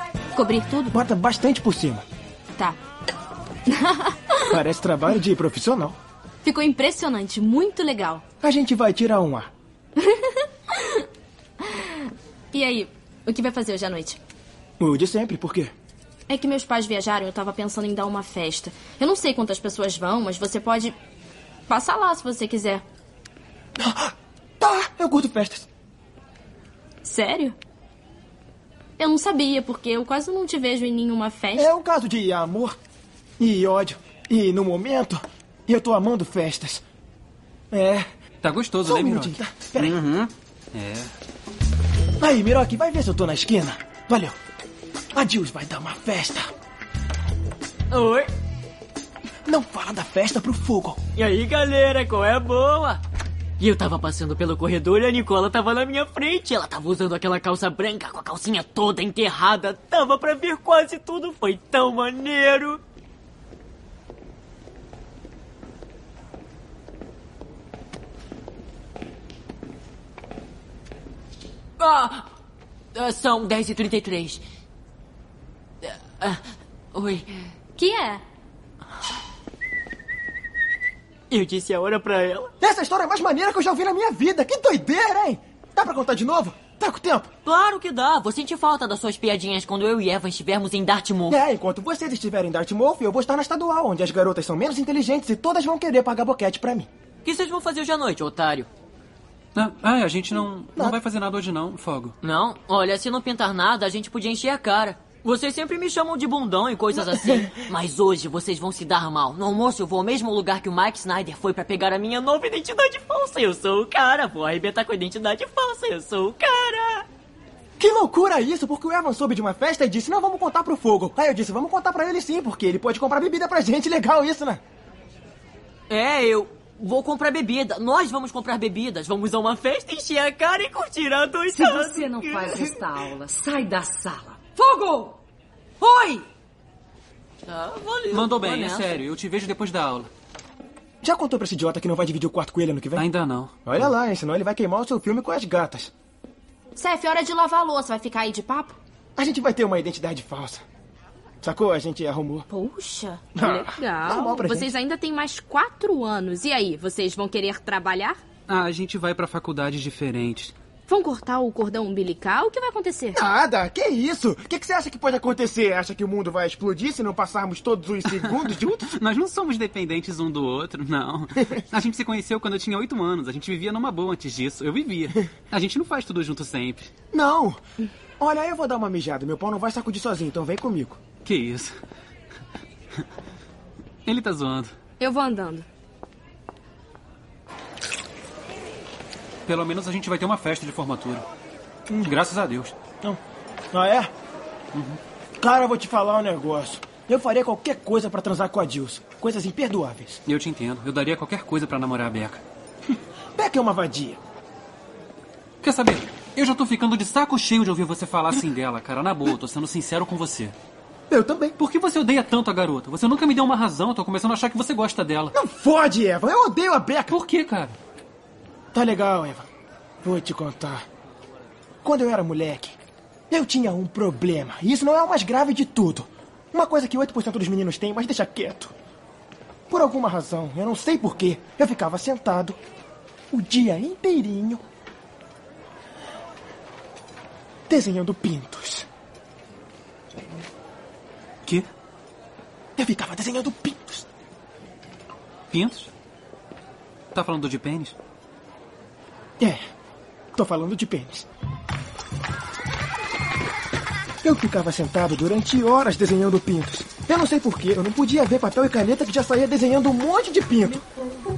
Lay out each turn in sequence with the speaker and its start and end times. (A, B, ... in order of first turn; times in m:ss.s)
0:00.4-0:00.9 A
0:00.9-0:02.0 B
0:03.7-0:04.4 A
0:04.5-0:06.0 B
0:06.4-0:08.2 A
0:08.4-0:09.5 B
0:10.0-0:11.0 A
0:11.6-0:11.9 A
0:12.5-0:14.2 A
0:14.8-0:15.7 B
0:16.3-0:20.9 A
0:21.7-0:22.8 A
0:23.8-0:25.7 B
0:27.0-0:27.6 A
0:29.0-0:31.7 A
0:31.5-0:32.8 B
0:33.4-0:36.8 B
0:37.7-0:38.1 B
0:38.4-0:39.4 C
0:38.8-0:40.0 B
0:39.8-0:40.3 D
0:40.7-0:41.1 C
0:42.2-0:44.4 B
0:45.1-0:46.5 B
0:47.9-0:48.3 D
0:49.4-0:51.0 B
0:51.2-0:53.0 D
0:53.6-1:02.8 D
1:11.8-1:12.2 D
1:12.9-1:14.4 D
1:15.8-1:16.4 D
1:16.9-1:17.4 D
1:21.3-1:22.5 D
1:22.6-1:27.3 B
1:27.4-1:31.4 D
1:31.3-1:36.9 B
1:37.2-1:38.7 D
1:39.5-1:42.1 C
1:42.2-1:57.0 D
1:47.2-1:47.5 B
1:57.8-2:04.6 B
2:05.9-2:12.8 D
2:11.5-2:15.2 E
2:15.8-2:16.2 E
2:17.5-2:19.0 D
2:18.1-2:20.1 C
2:21.0-2:23.0 B
2:23.0-2:23.8 C
2:23.6-2:25.9 B
2:26.8-2:28.8 A
2:29.2-2:30.6 B
2:31.4-2:32.4 B
2:32.5-2:38.2 A
2:33.4-2:34.7 B
2:38.5-2:40.5 C
2:40.9-2:43.2 A
2:43.1-2:48.9 B
2:48.8-2:56.9 C
2:57.1-2:57.6 B
2:58.2-3:01.0 B
3:01.2-3:01.8 C
3:04.0-3:04.7 C
3:05.0-3:05.6 A
3:09.4-3:11.2 C
3:11.9-3:12.1 B
3:12.0-3:12.7 C
3:13.7-3:14.1 B
3:15.4-3:20.2 B
3:20.2-3:22.4 C
3:22.9-3:24.2 B
3:25.6-3:30.6 C
3:31.1-3:31.6 B
3:31.6-3:35.4 C
3:35.3-3:37.2 B
3:37.1-3:37.8 C
3:38.7-3:39.5 B
3:40.0-3:40.8 B
3:41.8-3:42.7 B
3:43.3-3:48.7 B
3:49.7-3:52.6 B
3:53.3-3:54.6 B
3:57.7-3:58.9 B
4:02.8-4:04.1 B
4:05.5-4:05.9 C
4:07.1-4:07.9 C
4:10.4-4:11.2 B
4:14.2-4:20.8 B